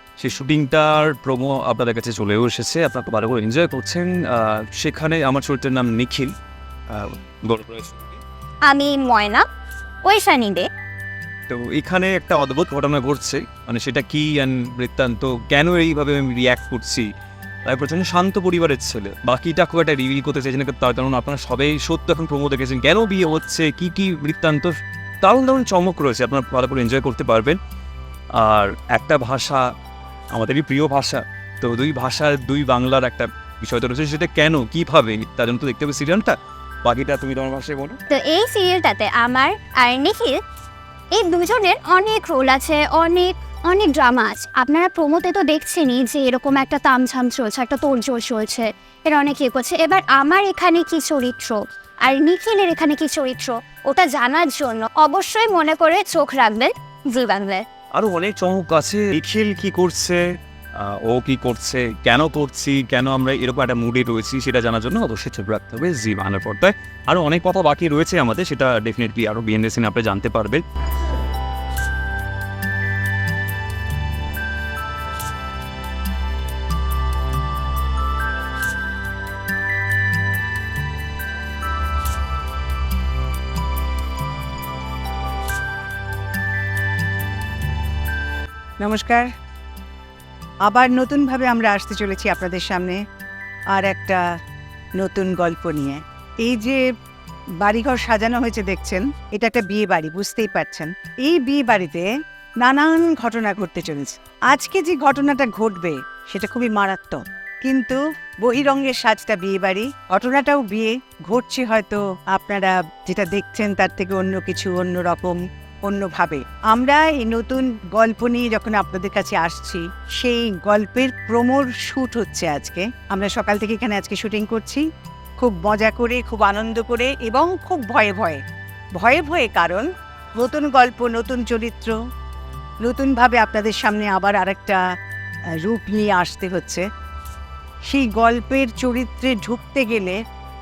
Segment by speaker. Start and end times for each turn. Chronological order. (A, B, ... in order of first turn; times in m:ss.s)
0:00.2-0:06.3 A
0:06.9-0:08.1 A
0:08.6-0:09.4 B
0:10.0-0:10.7 B
0:11.5-0:17.1 A
0:17.6-0:27.6 A
0:28.4-0:29.6 A
0:30.3-0:38.0 A
0:38.1-0:40.4 B
0:41.1-0:57.6 B
0:57.9-1:00.2 A
1:00.8-1:10.6 A
1:28.8-1:29.3 C
1:30.6-1:33.0 C
1:33.7-1:34.2 C
1:35.0-1:36.8 C
1:37.6-1:42.1 C
1:42.6-2:04.8 C
2:05.4-2:08.4 C
2:09.0-2:11.9 C
2:12.8-2:14.8 C
2:15.6-2:16.8 C
2:17.9-2:20.2 C